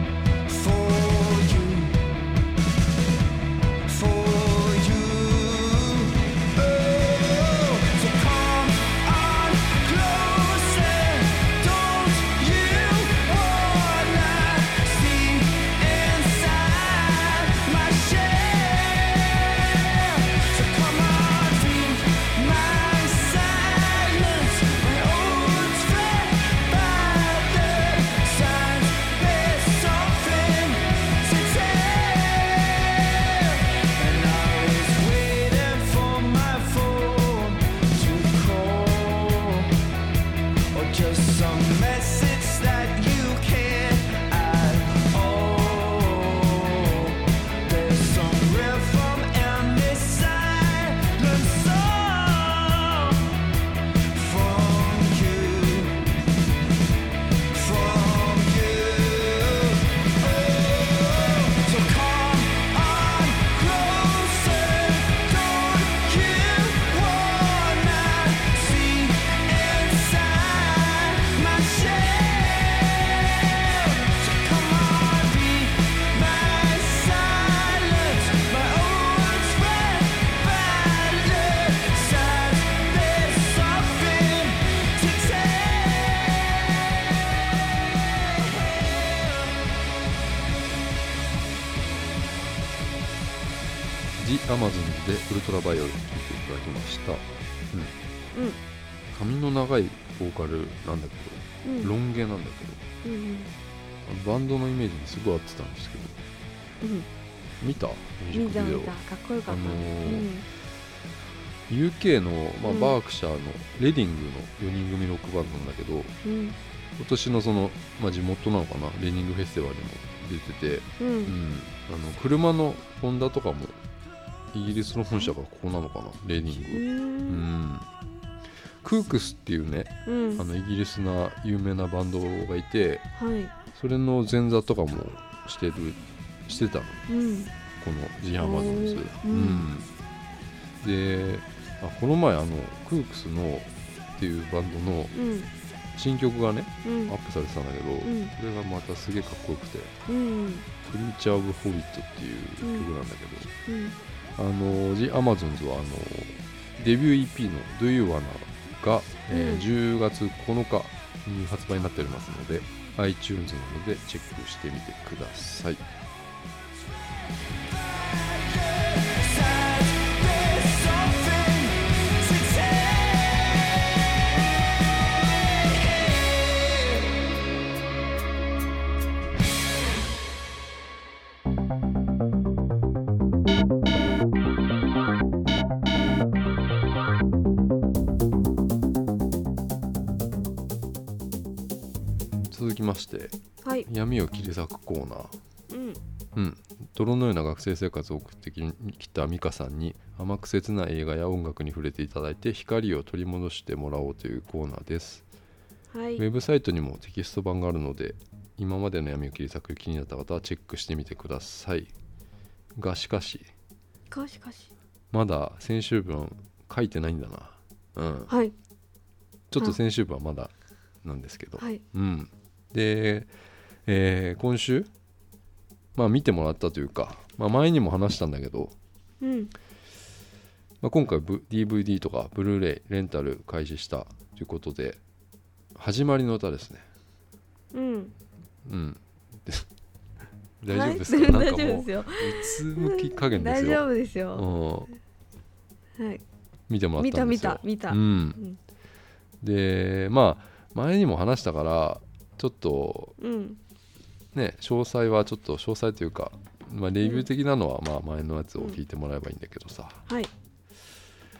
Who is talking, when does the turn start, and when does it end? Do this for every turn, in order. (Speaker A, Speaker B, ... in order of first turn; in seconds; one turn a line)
Speaker A: 0.5-2.0
Speaker A: 3.8-39.7
Speaker A: 40.7-53.3
Speaker A: 54.1-56.0
Speaker A: 57.5-86.8
Speaker A: 88.2-89.5
Speaker B: 94.2-97.9
Speaker C: 98.3-98.6
Speaker B: 99.1-102.8
Speaker C: 101.6-101.9
Speaker C: 103.0-103.5
Speaker B: 104.0-106.2
Speaker C: 106.8-107.1
Speaker B: 107.6-109.0
Speaker C: 108.3-110.5
Speaker B: 109.5-110.3
Speaker B: 111.7-116.1
Speaker C: 112.6-113.0
Speaker C: 116.2-116.6
Speaker B: 117.0-123.8
Speaker C: 121.0-121.3
Speaker B: 124.5-127.9
Speaker C: 126.7-127.5
Speaker B: 128.8-133.0
Speaker C: 130.1-130.4
Speaker C: 133.2-133.5
Speaker B: 133.7-137.0
Speaker C: 137.1-137.5
Speaker B: 137.8-139.9
Speaker C: 138.4-139.7
Speaker B: 140.8-145.1
Speaker C: 145.1-145.5
Speaker B: 145.9-149.9
Speaker C: 146.8-147.1
Speaker C: 148.0-148.3
Speaker C: 150.1-150.7
Speaker B: 150.8-153.5
Speaker C: 152.6-152.9
Speaker C: 153.7-154.0
Speaker B: 154.4-165.8
Speaker C: 159.3-159.7
Speaker A: 167.8-174.0
Speaker A: 175.4-177.2
Speaker B: 192.5-193.3
Speaker C: 193.6-193.9
Speaker B: 193.8-195.3
Speaker C: 195.7-196.0
Speaker B: 196.3-205.2
Speaker C: 205.9-206.2
Speaker B: 206.2-211.9
Speaker B: 212.8-213.5
Speaker C: 214.1-214.7
Speaker B: 215.1-218.3
Speaker C: 218.3-218.5
Speaker B: 219.5-220.5
Speaker B: 221.0-223.3
Speaker C: 221.6-221.8
Speaker B: 223.8-224.9
Speaker B: 225.9-228.7
Speaker C: 229.2-229.5
Speaker B: 230.8-235.0
Speaker B: 235.7-236.8
Speaker C: 237.7-238.1
Speaker B: 238.6-239.7
Speaker B: 240.6-244.9
Speaker C: 240.7-244.5
Speaker C: 245.9-246.2
Speaker B: 246.7-248.4
Speaker C: 247.0-248.6
Speaker B: 249.4-253.2
Speaker C: 253.2-253.6
Speaker B: 254.3-260.1
Speaker C: 257.0-257.3